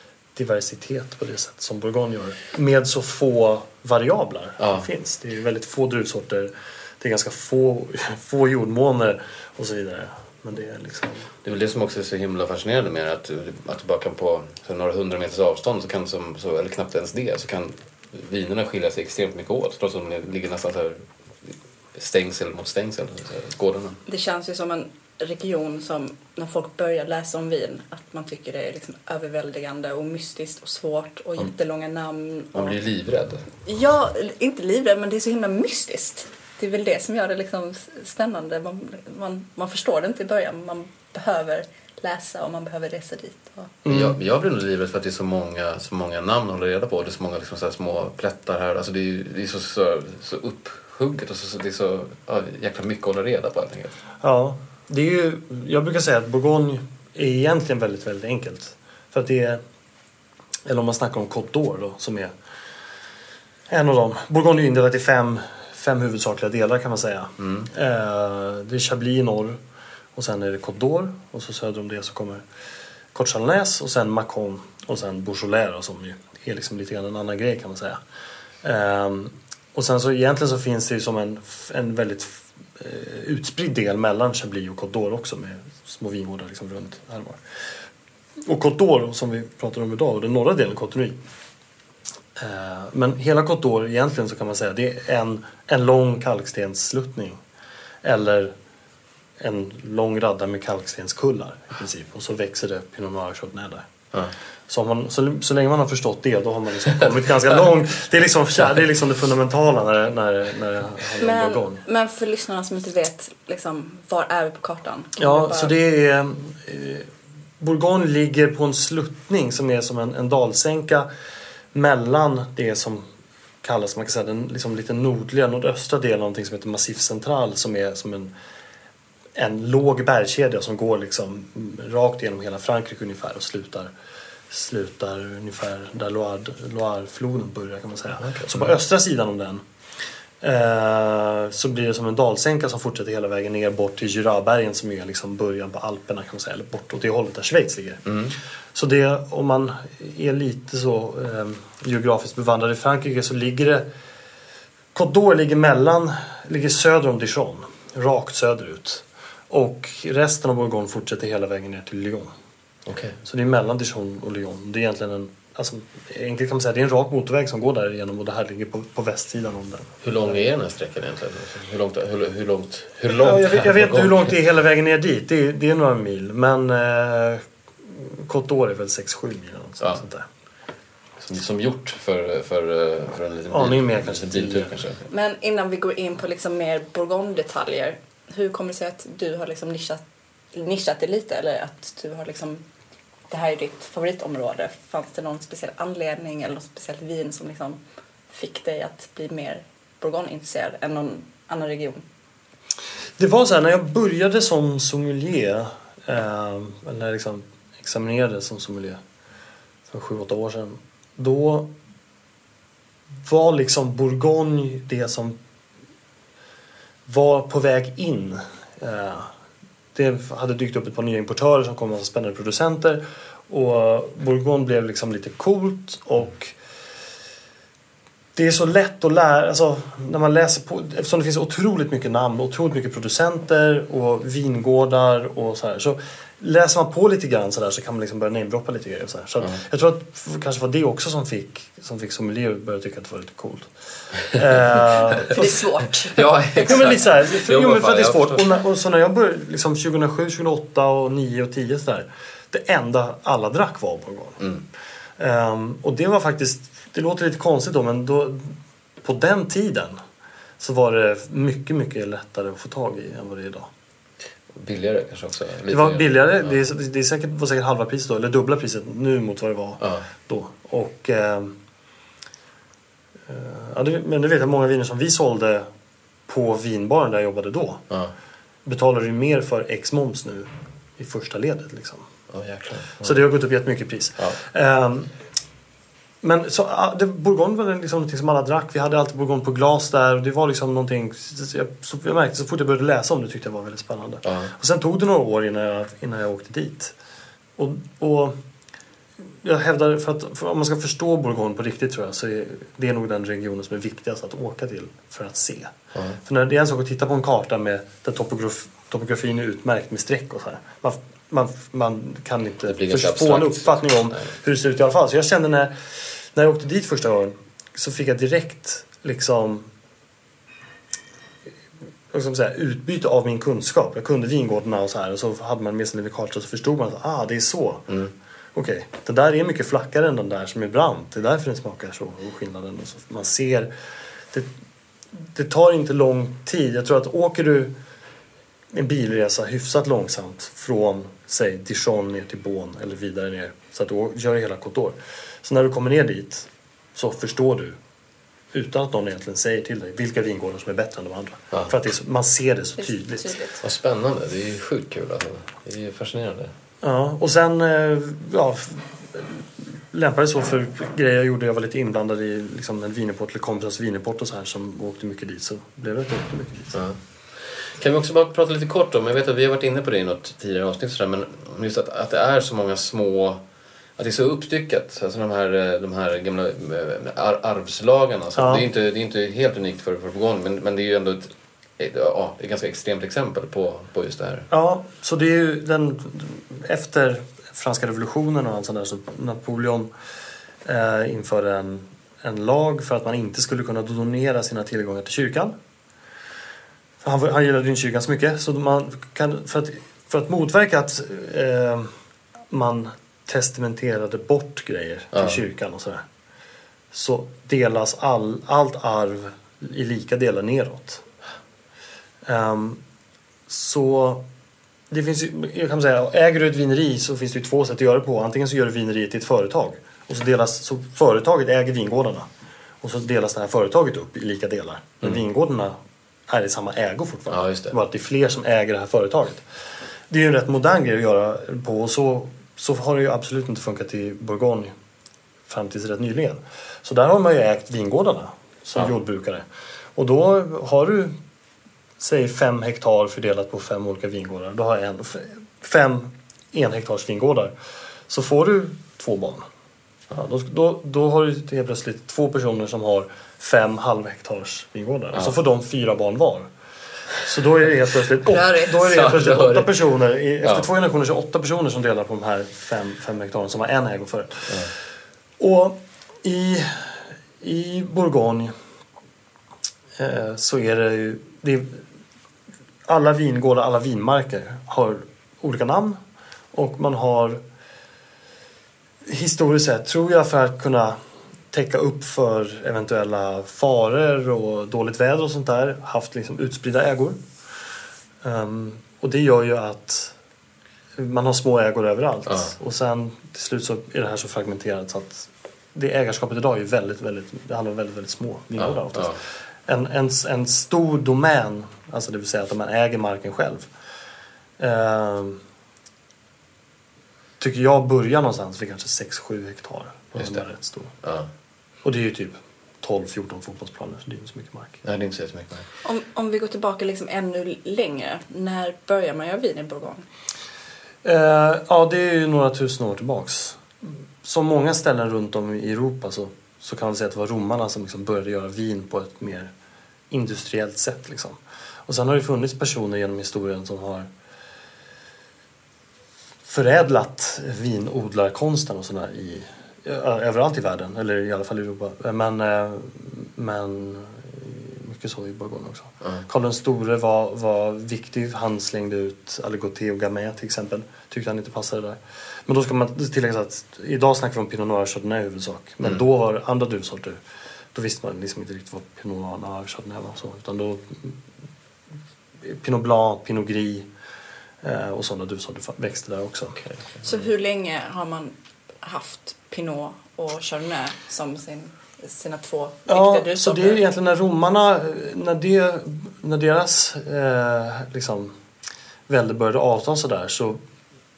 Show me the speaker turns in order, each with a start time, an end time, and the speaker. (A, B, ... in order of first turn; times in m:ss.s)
0:00.4-0:11.3 A
0:04.6-0:04.9 B
0:11.4-0:24.0 B
0:24.1-0:32.8 C
0:32.5-0:33.5 B
0:33.6-0:43.7 C
0:43.8-0:44.2 A
0:43.9-0:54.0 B
0:54.2-0:59.6 A
1:00.6-1:02.4 A
1:03.7-1:09.6 A
1:07.4-1:07.7 B
1:10.1-1:12.4 A
1:13.1-1:18.0 A
1:18.6-1:27.4 A
1:28.4-1:31.2 A
1:32.4-1:37.4 A
1:38.0-1:38.5 A
1:39.4-1:43.9 A
1:44.7-1:51.8 A
1:51.2-1:55.8 C
1:55.2-1:57.1 A
1:57.6-2:01.1 A
2:01.7-2:03.1 A
2:03.6-2:08.3 A
2:09.4-2:13.9 A
2:14.5-2:19.6 A
2:18.2-2:18.7 B
2:20.4-2:28.1 A
2:28.1-2:28.4 B
2:28.8-2:33.9 A
2:34.9-2:42.3 A
2:42.9-2:43.2 B
2:43.2-2:50.5 A
2:50.0-2:54.3 B
2:53.1-3:00.3 A
3:01.2-3:05.0 B
3:03.5-3:04.8 A
3:05.1-3:12.6 C
3:13.3-3:17.8 C
3:18.3-3:22.0 C
3:23.2-3:29.0 A
3:29.9-3:31.7 A
3:33.2-3:35.4 A
3:37.1-3:39.3 A
3:39.9-3:46.6 A
3:48.4-4:03.7 A
4:04.2-4:05.6 A
4:05.2-4:06.8 C
4:06.2-4:08.5 B
4:06.6-4:14.4 A
4:15.2-4:20.0 A
4:20.6-4:23.7 A
4:24.6-4:26.6 B
4:25.7-4:31.5 A
4:29.8-4:30.1 B
4:33.3-4:35.7 A
4:36.3-4:37.8 A
4:38.6-4:42.1 A
4:42.3-4:43.2 B
4:43.0-4:45.1 A
4:46.2-4:57.0 A
4:54.2-4:54.5 B
4:57.6-4:58.4 A
4:59.4-5:19.7 A
5:05.9-5:06.2 B
5:12.7-5:14.2 B
5:22.1-5:27.9 A
5:28.5-5:33.7 A
5:35.1-5:37.7 A
5:38.7-5:47.8 A
5:48.5-5:53.4 A
5:52.8-5:53.6 C
5:53.6-5:56.5 B
5:56.8-6:06.8 A
6:06.7-6:13.4 B
6:14.0-6:24.5 B
6:18.4-6:18.7 A
6:24.5-6:29.9 A
6:30.6-6:35.5 A
6:37.0-6:41.9 A
6:42.5-6:46.0 A
6:45.1-6:45.4 B
6:46.9-6:51.1 A
6:52.2-6:52.8 A
6:53.5-6:54.2 A
6:54.9-7:02.3 A
7:02.8-7:05.8 A
7:06.3-7:09.4 A
7:07.3-7:07.8 B
7:10.1-7:14.7 A
7:15.5-7:21.2 A
7:22.0-7:27.5 A
7:28.1-7:29.4 A
7:30.1-7:36.5 A
7:37.2-7:44.7 A
7:38.3-7:39.0 C
7:38.8-7:39.8 B
7:40.4-7:40.7 B
7:45.4-7:48.6 A
7:50.0-7:51.8 A
7:52.9-7:56.0 A
7:56.5-7:57.4 A
7:59.0-8:01.0 A
8:01.5-8:07.2 A
8:08.2-8:10.1 A
8:11.0-8:23.7 A
8:12.3-8:12.5 B
8:18.6-8:19.2 B
8:24.6-8:25.4 A
8:27.4-8:30.9 A
8:30.2-8:30.4 B
8:31.0-8:31.3 B
8:31.8-8:34.8 A
8:34.8-8:35.6 B
8:35.8-8:40.1 C
8:41.0-8:49.5 A
8:50.1-8:54.1 A
8:56.4-9:17.2 A
9:17.7-9:21.2 A
9:22.4-9:23.9 A
9:24.6-9:26.6 A
9:26.6-9:27.2 B
9:27.0-9:33.8 C
9:32.9-9:38.4 A
9:39.1-9:40.6 A